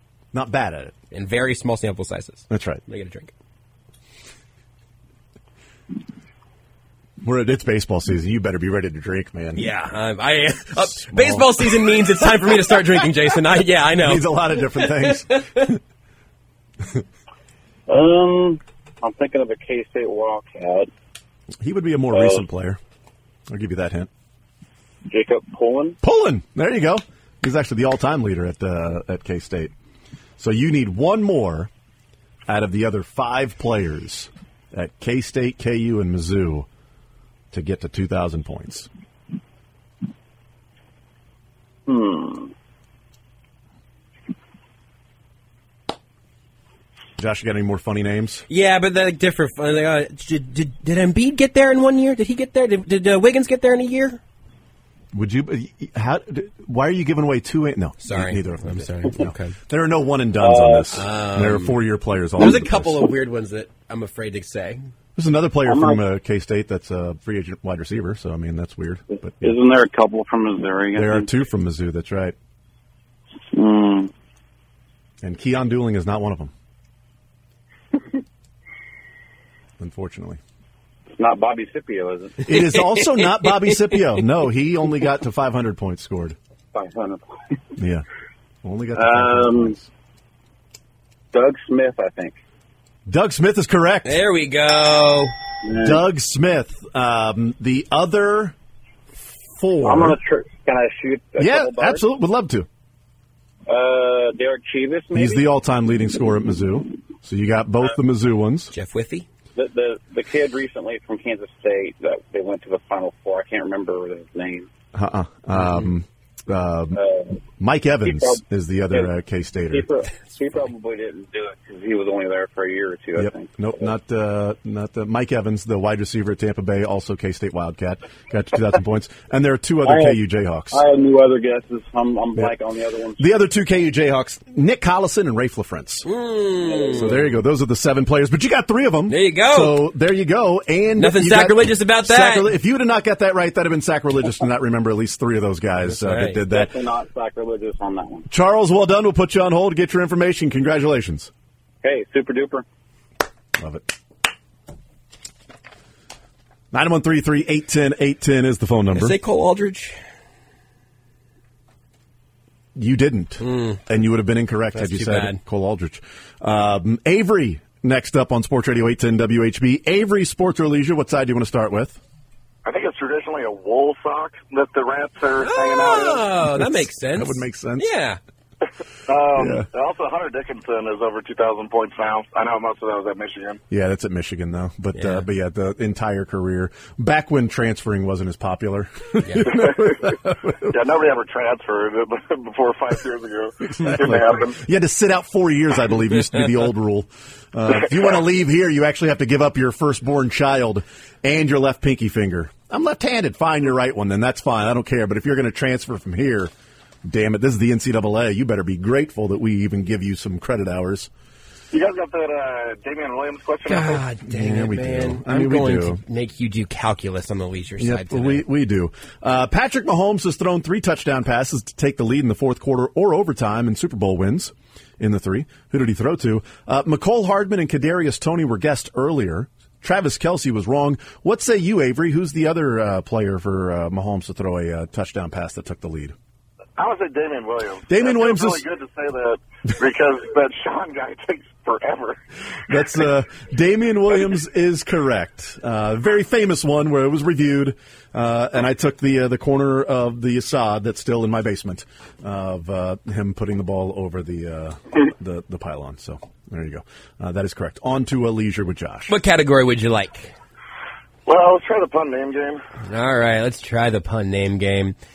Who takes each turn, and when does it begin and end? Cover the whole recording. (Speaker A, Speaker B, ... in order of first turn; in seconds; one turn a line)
Speaker A: 0.3-0.9
Speaker B: 1.1-3.3
Speaker A: 2.5-2.8
Speaker A: 7.2-9.7
Speaker B: 9.6-15.7
Speaker A: 10.8-12.0
Speaker A: 14.0-15.8
Speaker C: 17.9-20.9
Speaker A: 21.6-22.8
Speaker C: 22.1-22.4
Speaker A: 23.5-24.1
Speaker C: 25.1-26.0
Speaker A: 26.0-29.7
Speaker A: 30.4-31.7
Speaker A: 32.5-36.7
Speaker A: 37.5-38.9
Speaker C: 41.9-42.5
Speaker A: 47.2-48.4
Speaker B: 48.5-54.2
Speaker A: 55.1-63.1
Speaker B: 58.0-59.5
Speaker C: 60.4-61.0
Speaker B: 60.9-61.8
Speaker B: 62.4-64.9
Speaker A: 65.2-69.5
Speaker C: 65.6-66.0
Speaker C: 69.4-71.3
Speaker A: 70.9-72.3
Speaker C: 73.5-74.1
Speaker A: 75.2-76.5
Speaker A: 79.8-80.4
Speaker C: 81.1-82.5
Speaker A: 82.4-86.3
Speaker B: 82.5-84.0
Speaker C: 86.7-87.3
Speaker A: 87.8-88.0
Speaker A: 88.6-89.9
Speaker C: 88.9-89.8
Speaker C: 91.3-92.3
Speaker A: 93.0-94.2
Speaker B: 94.0-95.3
Speaker C: 95.6-96.0
Speaker A: 95.8-98.5
Speaker A: 99.5-100.2
Speaker C: 99.8-102.0
Speaker A: 101.4-102.7
Speaker C: 103.7-105.4
Speaker A: 105.1-108.7
Speaker B: 108.7-109.2
Speaker C: 109.5-114.7
Speaker A: 114.9-117.0
Speaker C: 116.9-117.4
Speaker A: 117.6-119.9
Speaker C: 118.0-119.1
Speaker C: 119.7-123.9
Speaker A: 123.2-130.8
Speaker C: 129.8-130.2
Speaker C: 130.7-133.2
Speaker A: 133.2-136.1
Speaker B: 136.0-137.2
Speaker C: 136.6-137.3
Speaker A: 136.9-146.8
Speaker B: 139.1-139.8
Speaker B: 141.0-142.5
Speaker B: 145.8-146.4
Speaker C: 146.4-148.3
Speaker A: 148.3-151.3
Speaker C: 151.8-152.6
Speaker A: 153.6-153.9
Speaker A: 156.7-159.2
Speaker B: 158.9-159.9
Speaker A: 162.7-172.0
Speaker B: 163.4-163.8
Speaker B: 164.7-165.4
Speaker D: 172.6-176.3
Speaker B: 175.4-178.2
Speaker A: 176.4-177.9
Speaker D: 179.1-183.6
Speaker A: 179.3-179.7
Speaker A: 183.7-190.8
Speaker B: 184.9-185.2
Speaker D: 189.5-190.1
Speaker D: 190.6-194.6
Speaker A: 193.8-206.5
Speaker A: 207.0-211.1
Speaker D: 211.7-214.0
Speaker B: 213.7-218.4
Speaker A: 214.2-216.0
Speaker A: 217.8-236.1
Speaker D: 236.8-242.2
Speaker A: 237.9-238.6
Speaker A: 242.7-259.1
Speaker B: 259.1-260.3
Speaker D: 261.2-262.6
Speaker B: 262.9-264.9